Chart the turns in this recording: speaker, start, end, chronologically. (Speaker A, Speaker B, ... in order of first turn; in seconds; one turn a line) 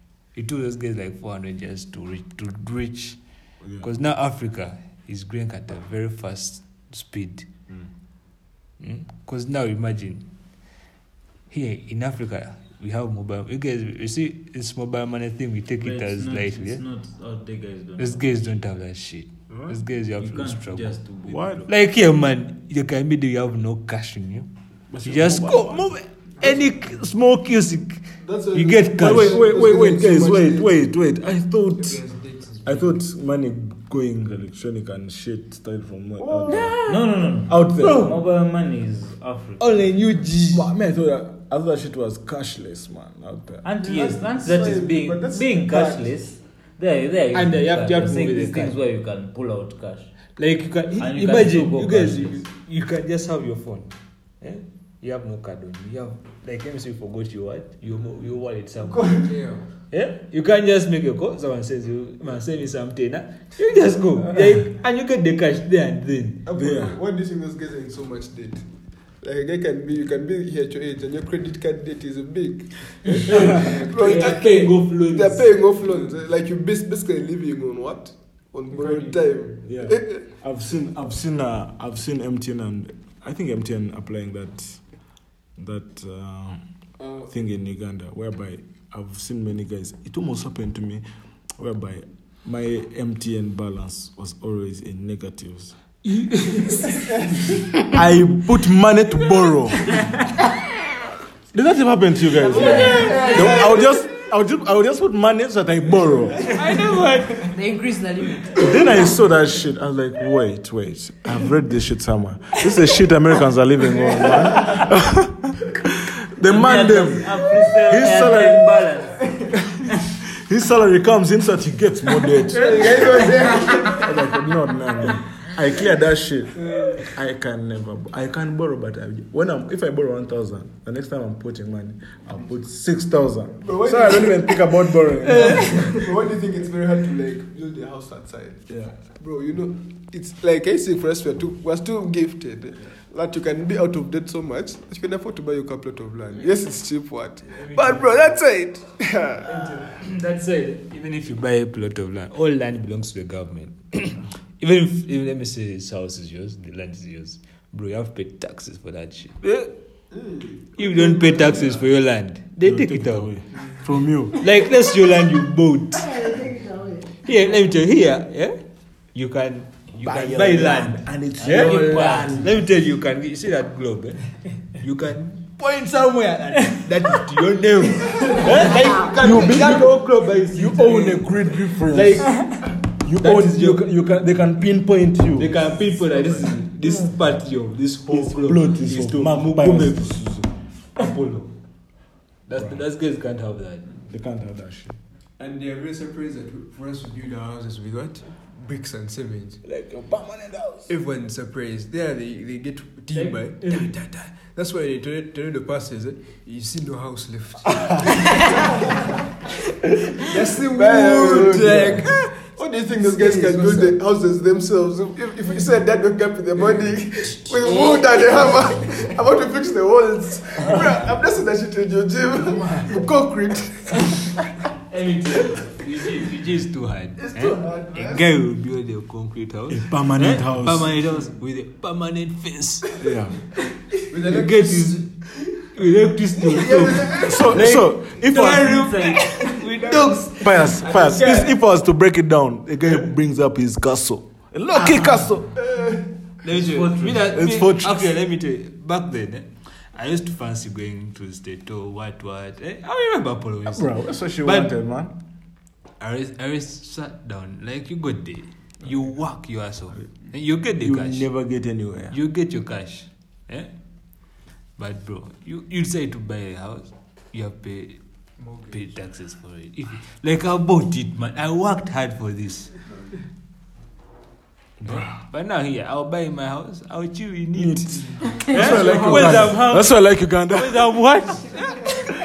Speaker A: 0.3-3.2
Speaker B: 3.6-3.9
Speaker A: 3.8-7.5
Speaker A: 8.8-10.3
Speaker A: 11.5-16.8
Speaker C: 15.8-18.4
Speaker A: 18.0-20.9
Speaker B: 19.5-19.8
Speaker C: 20.2-21.7
Speaker B: 21.3-21.7
Speaker A: 21.7-24.5
Speaker B: 24.9-26.0
Speaker A: 25.0-29.4
Speaker D: 28.2-30.8
Speaker B: 29.0-32.0
Speaker E: 31.8-33.0
Speaker B: 32.6-36.8
Speaker D: 36.2-36.7
Speaker C: 36.9-39.9
Speaker B: 37.5-38.1
Speaker A: 39.6-40.6
Speaker B: 40.5-43.7
Speaker C: 43.6-50.4
Speaker D: 43.8-46.2
Speaker A: 47.3-48.8
Speaker A: 50.4-59.3
Speaker C: 51.0-52.4
Speaker D: 58.9-59.2
Speaker E: 59.2-59.7
Speaker A: 59.9-66.5
Speaker D: 66.5-68.7
Speaker B: 66.5-67.0
Speaker D: 69.2-80.2
Speaker A: 73.2-75.6
Speaker E: 73.4-74.7
Speaker E: 75.8-76.2
Speaker B: 79.6-91.0
Speaker B: 91.6-95.8
Speaker A: 96.0-97.0
Speaker B: 97.8-100.1
Speaker B: 101.5-106.5
Speaker F: 102.4-104.0
Speaker D: 102.6-103.6
Speaker A: 102.7-103.5
Speaker A: 106.5-107.5
Speaker F: 107.4-109.2
Speaker B: 108.6-115.7
Speaker B: 116.3-118.9
Speaker C: 116.4-119.3
Speaker B: 120.4-123.2
Speaker D: 122.5-124.1
Speaker E: 122.6-123.7
Speaker B: 124.0-135.9
Speaker D: 133.6-149.7
Speaker E: 135.3-136.1
Speaker B: 138.7-139.0
Speaker A: 147.5-148.4
Speaker A: 149.4-159.7
Speaker D: 160.1-161.8
Speaker A: 160.8-163.3
Speaker B: 162.6-164.4
Speaker A: 164.4-166.2
Speaker F: 166.0-167.2
Speaker A: 167.2-168.6
Speaker A: 169.1-183.9
Speaker B: 170.0-172.6
Speaker C: 171.4-172.4
Speaker F: 178.6-179.2
Speaker B: 179.2-185.9
Speaker A: 185.4-191.6
Speaker E: 186.2-186.5
Speaker B: 187.8-190.5
Speaker A: 192.5-194.0
Speaker B: 192.5-192.8
Speaker B: 194.1-195.0
Speaker E: 195.4-199.6
Speaker B: 199.6-200.9
Speaker E: 200.9-208.5
Speaker A: 203.1-204.0
Speaker E: 210.2-214.0
Speaker D: 210.7-224.4
Speaker E: 216.6-216.9
Speaker E: 217.4-217.9
Speaker A: 224.9-233.1
Speaker D: 227.2-228.3
Speaker B: 229.7-231.0
Speaker B: 233.0-233.4
Speaker E: 234.1-235.6
Speaker A: 234.2-240.8
Speaker D: 236.5-237.4
Speaker E: 236.6-237.2
Speaker B: 237.1-239.1
Speaker C: 238.7-239.3
Speaker E: 239.3-241.6
Speaker B: 240.4-245.6
Speaker A: 244.8-245.1
Speaker D: 245.7-246.0
Speaker A: 246.4-254.7
Speaker C: 246.5-247.3
Speaker B: 247.3-248.1
Speaker B: 253.7-255.2
Speaker A: 256.0-261.3
Speaker B: 260.8-262.2
Speaker A: 262.1-263.7
Speaker A: 264.8-268.0
Speaker E: 268.4-269.0
Speaker A: 268.5-272.8
Speaker B: 274.8-275.2
Speaker A: 274.9-282.0
Speaker B: 277.5-281.1
Speaker E: 278.4-279.6